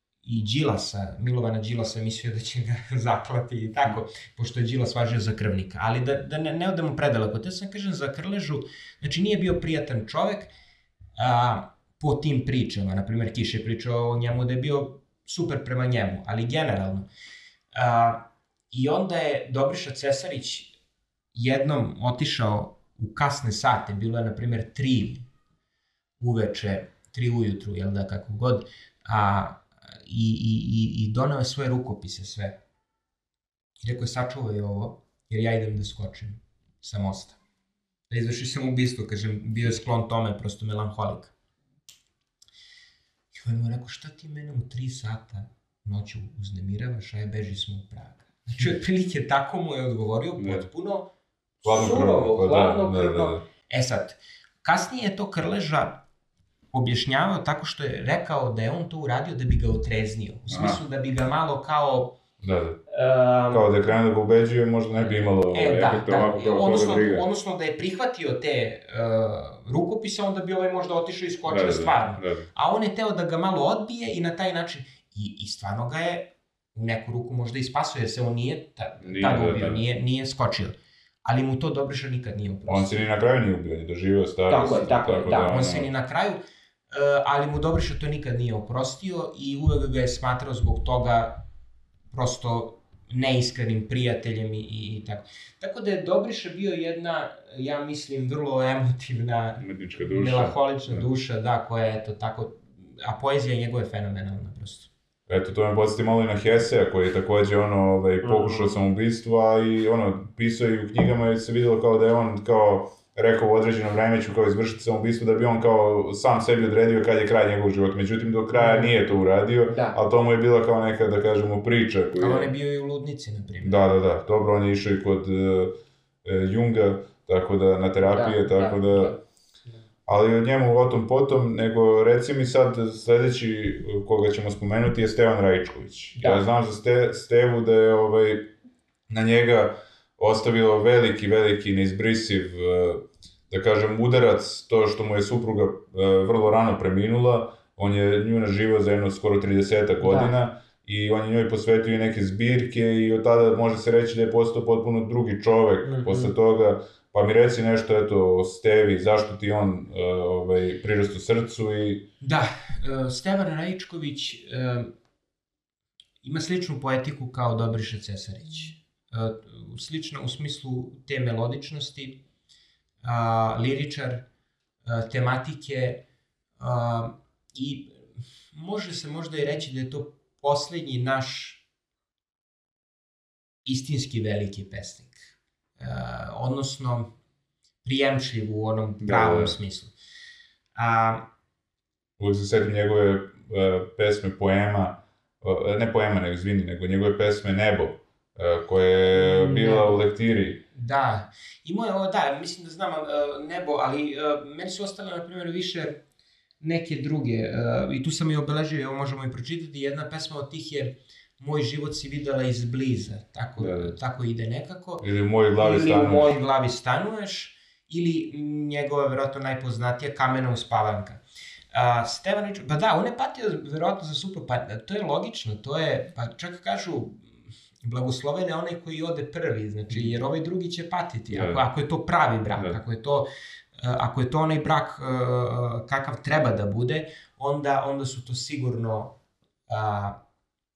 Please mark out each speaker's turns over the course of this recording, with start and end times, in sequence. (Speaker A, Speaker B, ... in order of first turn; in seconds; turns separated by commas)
Speaker A: 0.2-10.5, Speaker A: 11.2-17.1, Speaker A: 17.7-20.7, Speaker A: 21.3-25.2, Speaker A: 26.2-32.5, Speaker A: 33.8-37.4, Speaker A: 38.1-41.3, Speaker A: 43.3-51.1, Speaker B: 50.4-50.6, Speaker A: 51.6-55.9, Speaker B: 51.6-53.4, Speaker A: 56.7-62.1, Speaker B: 60.5-60.8, Speaker B: 62.4-62.8, Speaker A: 62.9-63.6, Speaker B: 63.5-67.2, Speaker A: 65.0-83.1, Speaker B: 71.5-72.5, Speaker B: 79.0-79.8, Speaker B: 82.7-85.9, Speaker A: 84.5-86.4, Speaker A: 86.9-91.3, Speaker A: 92.1-104.9, Speaker B: 99.6-101.0, Speaker B: 105.3-122.5, Speaker A: 118.5-118.9, Speaker A: 119.7-120.0, Speaker A: 122.2-123.8, Speaker B: 123.6-129.1, Speaker A: 128.0-129.2, Speaker B: 130.1-138.5, Speaker A: 136.1-136.4, Speaker B: 139.1-162.0, Speaker A: 150.0-150.3, Speaker A: 155.8-156.3, Speaker A: 162.2-164.9, Speaker A: 166.2-172.1, Speaker A: 173.0-174.2, Speaker A: 174.8-176.0, Speaker A: 176.6-177.9, Speaker A: 178.5-181.6, Speaker A: 183.6-185.2, Speaker A: 185.8-187.1, Speaker A: 187.8-189.9, Speaker B: 189.0-189.5, Speaker A: 190.8-191.2, Speaker B: 192.2-200.6, Speaker A: 199.1-200.0, Speaker A: 200.7-206.0, Speaker A: 206.6-215.0, Speaker B: 213.6-213.9, Speaker B: 215.0-216.3, Speaker A: 215.6-221.2, Speaker A: 221.7-227.2, Speaker A: 227.8-239.1, Speaker B: 231.3-231.6, Speaker A: 239.7-240.2